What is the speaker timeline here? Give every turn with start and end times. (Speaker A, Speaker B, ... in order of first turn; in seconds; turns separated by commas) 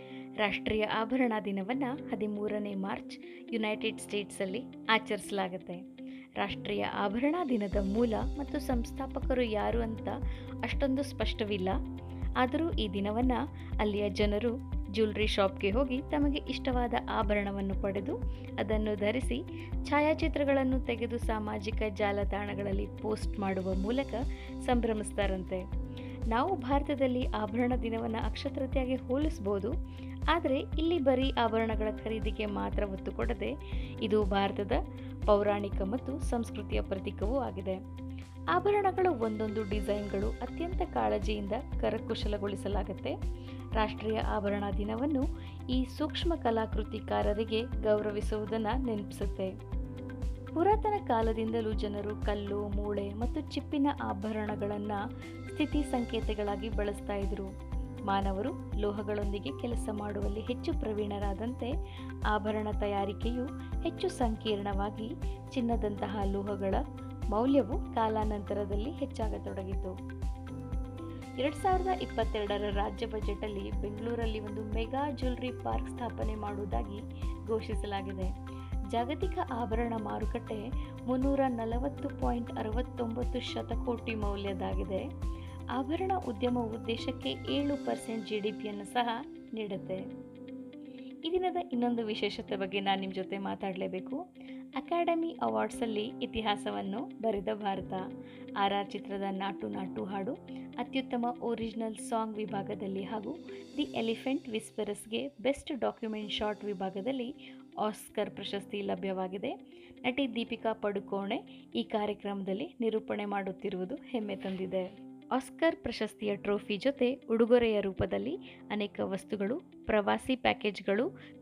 Speaker A: 0.4-5.8, Speaker A: 6.4-11.8, Speaker A: 12.4-25.6, Speaker A: 26.3-29.7, Speaker A: 30.3-33.5, Speaker A: 34.0-37.8, Speaker A: 38.5-43.1, Speaker A: 43.8-49.5, Speaker A: 50.6-55.0, Speaker A: 55.5-57.5, Speaker A: 58.1-61.7, Speaker A: 62.3-69.9, Speaker A: 71.4-78.3, Speaker A: 78.9-85.0, Speaker A: 85.8-90.0, Speaker A: 91.2-94.2, Speaker A: 94.8-98.0, Speaker A: 98.6-107.3, Speaker A: 107.8-121.1